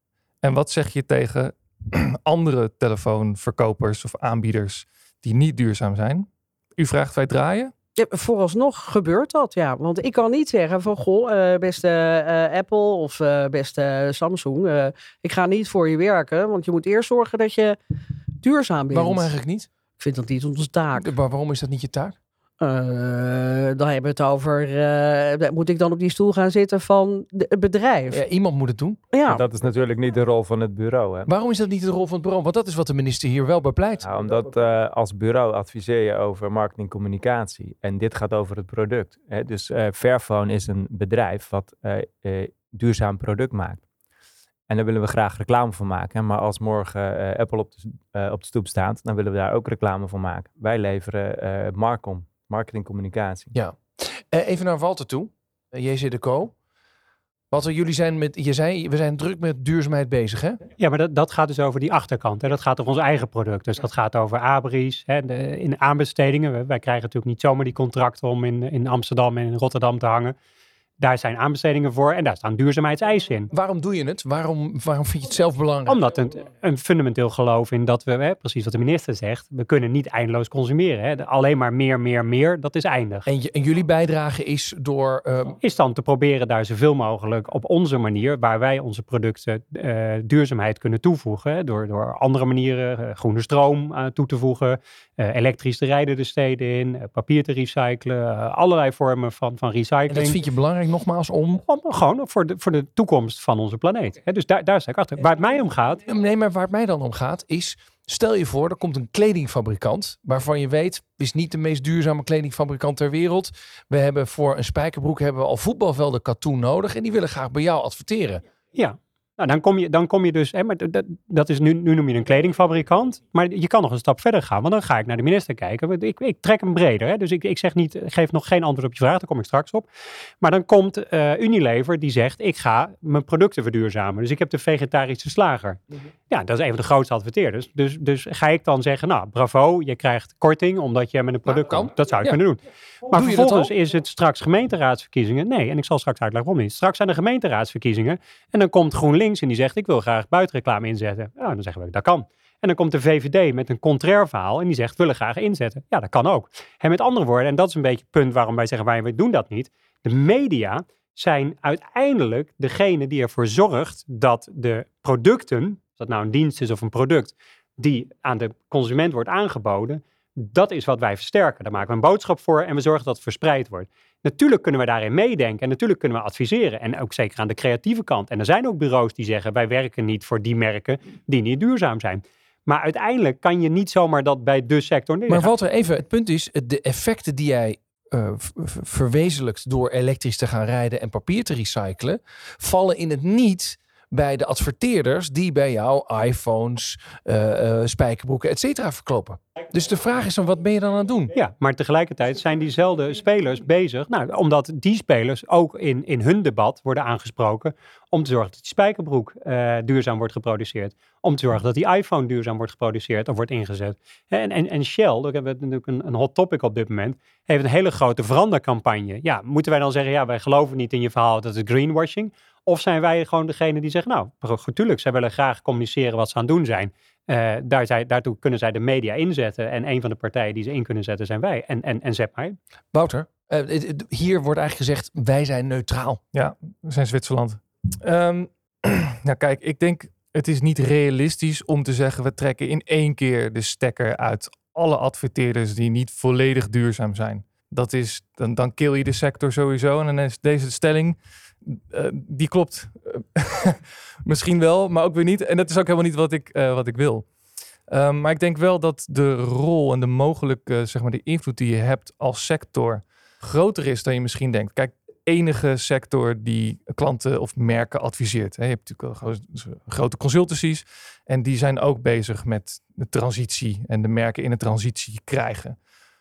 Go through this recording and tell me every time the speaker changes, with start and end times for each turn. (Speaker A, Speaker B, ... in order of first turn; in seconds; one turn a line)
Speaker A: 0.4-7.7
Speaker B: 8.0-17.8
Speaker B: 18.4-19.3
Speaker C: 18.9-19.7
Speaker B: 20.0-21.1
Speaker C: 20.9-22.2
Speaker B: 22.6-28.2
Speaker C: 28.1-29.0
Speaker B: 29.1-29.4
Speaker D: 29.2-31.3
Speaker C: 31.2-34.0
Speaker D: 34.0-43.8
Speaker D: 44.7-53.5
Speaker C: 53.5-56.5
Speaker C: 57.5-60.6
Speaker E: 60.8-70.4
Speaker E: 71.0-73.5
Speaker C: 73.5-76.0
Speaker E: 75.9-83.3
Speaker C: 83.2-85.6
Speaker E: 85.6-100.4
Speaker C: 100.1-101.6
Speaker E: 101.6-106.0
Speaker C: 106.0-118.4
Speaker E: 118.8-129.9
Speaker E: 130.4-185.5
Speaker C: 141.5-142.4
Speaker C: 143.1-143.7
Speaker C: 185.3-201.3
Speaker E: 201.3-232.6
Speaker C: 232.9-236.2
Speaker A: 236.3-257.3
Speaker A: 257.9-275.8